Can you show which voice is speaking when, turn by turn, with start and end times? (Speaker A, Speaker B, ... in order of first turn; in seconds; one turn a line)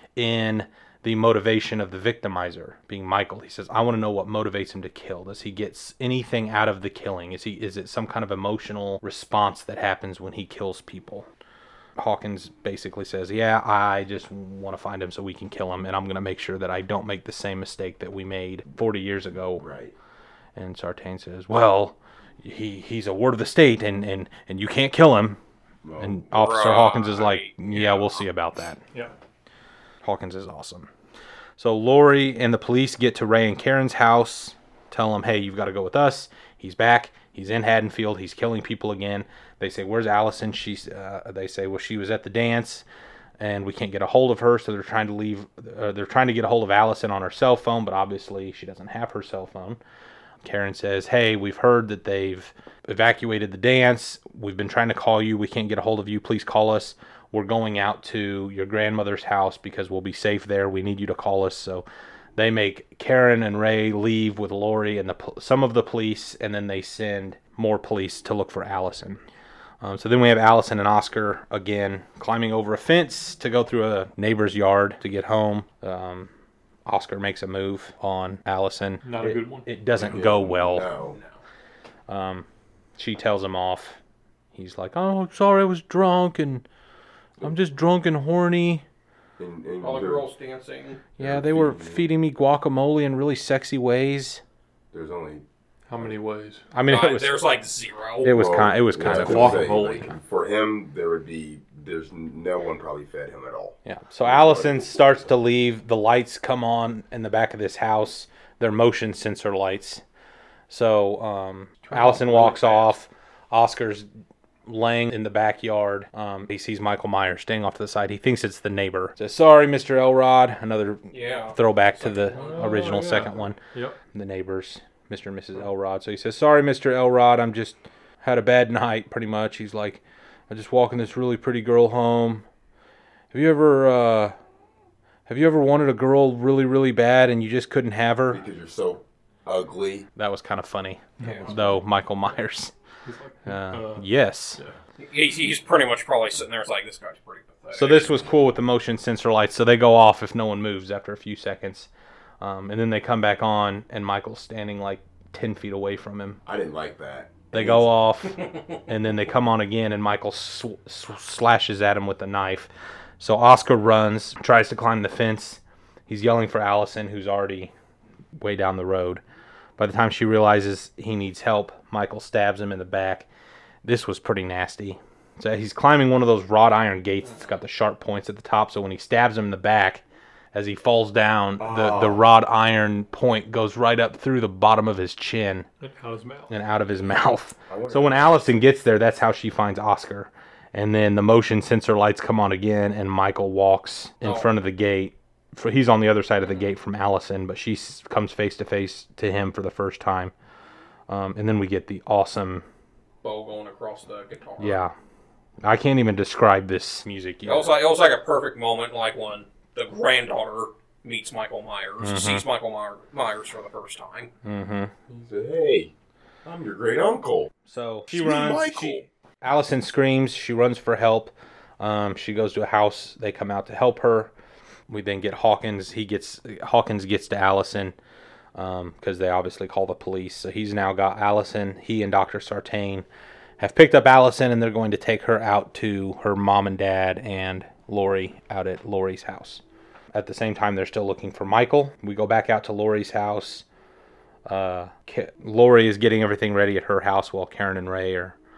Speaker A: 0.1-11.3
Speaker A: 12.0-19.6
Speaker B: 19.6-19.9
Speaker A: 20.6-25.4
Speaker B: 25.8-26.2
Speaker A: 26.0-28.8
Speaker C: 26.3-28.2
Speaker A: 30.0-30.9
Speaker A: 31.6-42.8
Speaker A: 43.4-49.8
Speaker A: 50.4-61.8
Speaker A: 62.4-69.2
Speaker A: 69.8-76.3
Speaker A: 76.8-80.9
Speaker D: 79.0-79.7
Speaker B: 79.9-81.2
Speaker C: 81.0-81.4
Speaker A: 82.1-82.5
Speaker A: 83.0-84.0
Speaker A: 84.5-86.6
Speaker A: 87.4-88.8
Speaker B: 89.4-90.3
Speaker C: 89.8-91.0
Speaker A: 91.2-94.4
Speaker B: 91.2-92.1
Speaker B: 94.9-95.4
Speaker D: 95.9-96.6
Speaker A: 96.7-97.5
Speaker C: 96.8-98.3
Speaker A: 98.2-99.7
Speaker B: 98.2-105.3
Speaker D: 99.0-100.1
Speaker A: 103.8-110.0
Speaker A: 110.7-114.1
Speaker D: 111.9-112.8
Speaker A: 114.7-123.6
Speaker C: 121.1-122.9
Speaker D: 122.3-124.0
Speaker A: 124.1-132.4
Speaker A: 133.3-134.3
Speaker A: 135.3-138.4
Speaker B: 138.3-140.1
Speaker A: 140.2-142.7
Speaker D: 141.2-141.8
Speaker C: 141.2-141.5
Speaker D: 143.0-144.8
Speaker A: 143.4-144.6
Speaker C: 145.0-148.2
Speaker A: 147.7-151.9
Speaker A: 152.4-156.4
Speaker B: 156.4-157.9
Speaker A: 157.5-162.7
Speaker A: 163.2-167.7
Speaker A: 168.4-169.2
Speaker A: 169.8-173.2
Speaker A: 173.8-185.7
Speaker B: 181.6-182.2
Speaker D: 185.8-186.5
Speaker A: 186.5-200.3
Speaker B: 187.7-188.7
Speaker C: 194.2-194.5
Speaker A: 201.1-202.6
Speaker C: 203.2-204.8
Speaker A: 204.6-204.9
Speaker A: 205.6-207.7
Speaker C: 207.4-214.3
Speaker A: 212.0-212.4
Speaker A: 214.4-214.9
Speaker B: 215.1-215.9
Speaker B: 216.4-217.5
Speaker A: 217.7-224.3
Speaker B: 218.1-219.1
Speaker A: 224.9-227.9
Speaker A: 228.6-233.1
Speaker A: 233.6-239.6
Speaker A: 240.1-243.6
Speaker A: 244.4-248.3